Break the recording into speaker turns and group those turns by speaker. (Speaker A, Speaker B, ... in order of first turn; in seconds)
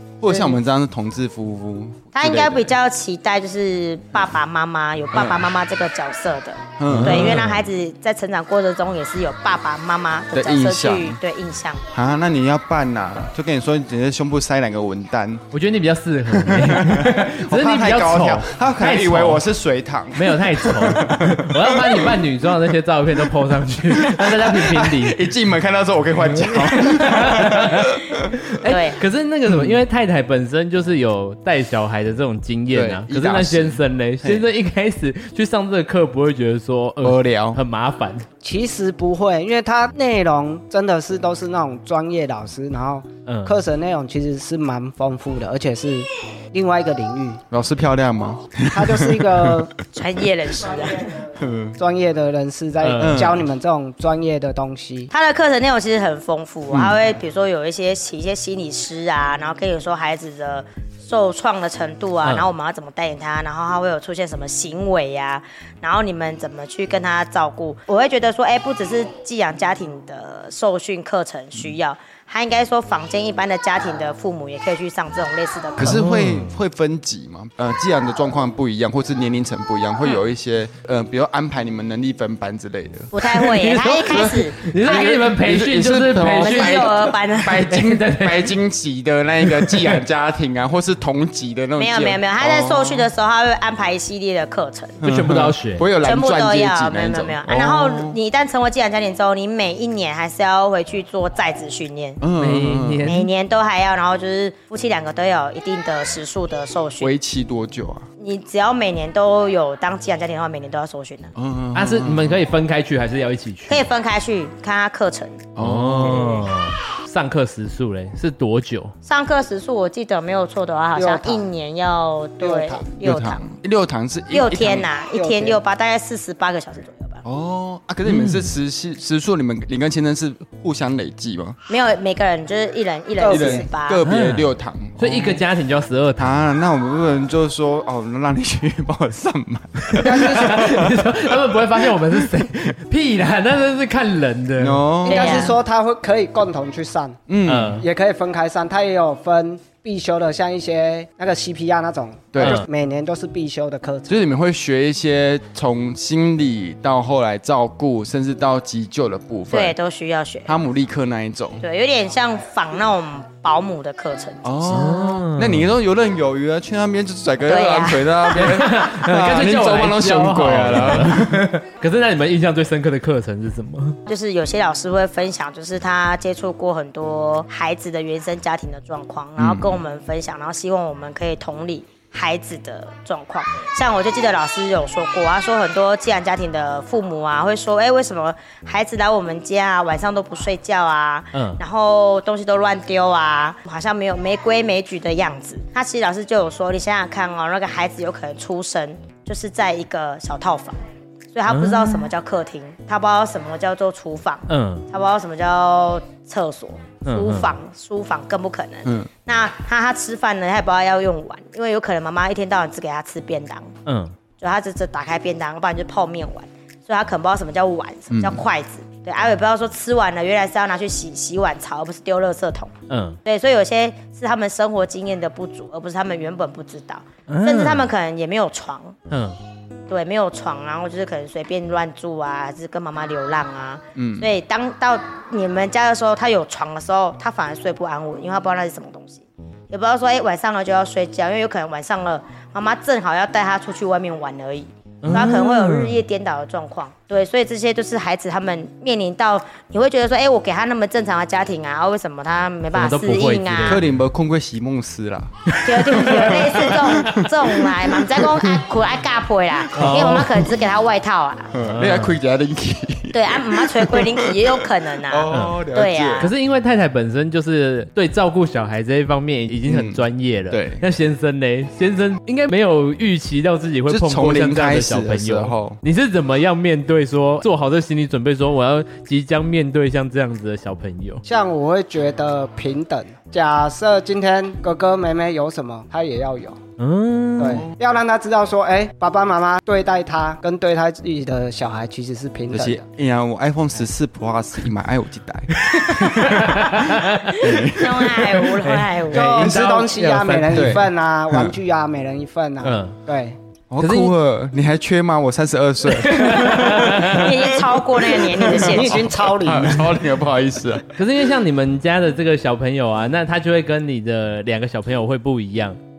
Speaker A: 0.2-2.7, 5.1-5.4, 6.8-7.5, 10.3-11.2, 11.9-15.4, 16.3-22.3, 23.8-28.4, 29.5-29.8, 32.7-34.5, 37.0-37.6, 47.5-49.7, 51.3-51.8, 53.0-53.4, 56.7-57.1, 75.8-83.1, 84.8-93.1, 95.0-98.2, 102.2-103.2, 107.0-108.1, 111.3-112.4, 115.5-116.5, 123.0-124.9, 127.2-131.6, 133.2-135.4, 136.2-142.3, 144.6-145.4, 147.3-147.8, 152.3-152.7, 154.1-159.8, 160.4-161.6, 164.4-171.5, 179.4-179.8, 218.1-218.4, 233.9-234.3, 253.7-258.5, 259.7-260.5, 261.5-266.3, 269.7-270.8, 273.9-275.8, 287.5-287.7, 292.5-298.5, 299.3-299.7, 300.5-301.6, 303.7-310.9
Speaker B: 0.3-0.6, 2.1-11.8, 28.6-29.0, 49.9-51.2, 55.1-76.0, 83.1-85.2, 86.4-87.7, 91.8-95.0, 96.0-102.2, 103.0-107.1, 108.2-111.3, 113.7-115.5, 116.0-116.5, 119.0-123.5, 124.3-127.2, 131.7-134.0, 145.0-145.6, 159.5-160.5, 161.6-164.8, 167.4-168.5, 174.1-200.8, 201.3-213.7, 214.4-222.7, 223.2-228.9, 229.9-253.8, 255.6-261.5, 263.1-266.3, 297.3-299.4, 306.9-309.2
Speaker C: 6.9-7.6, 15.5-19.4, 20.1-25.2, 26.2-38.2, 43.2-43.6, 52.8-53.4, 62.2-62.5, 75.8-76.6, 83.2-87.0, 87.7-88.5, 89.4-90.0, 95.0-95.8, 102.4-103.3, 111.7-113.9, 115.6-118.9, 128.1-128.5, 134.0-136.3, 139.9-144.8, 147.4-147.8, 152.4-152.7, 164.7-165.7, 168.3-174.0, 191.3-191.6, 201.5-202.1, 204.5-204.9, 207.1-207.5, 213.8-214.1, 222.9-223.2, 227.3-227.8, 229.1-229.4, 245.0-246.0, 252.7-253.9, 255.5-257.1, 259.7-260.3, 261.7-262.1, 265.3-265.6, 266.2-281.2, 286.8-287.7, 295.5-297.5, 298.4-300.9, 302.6-302.9, 303.8-304.1, 305.9-307.4, 310.9-315.8
Speaker D: 38.4-47.4, 48.7-49.7, 51.8-55.1, 120.9-121.5, 122.4-122.9, 125.1-125.6, 133.2-133.7, 140.0-140.8, 145.0-147.2, 147.8-154.1, 281.2-286.6, 287.4-292.8, 299.1-303.4, 308.4-310.0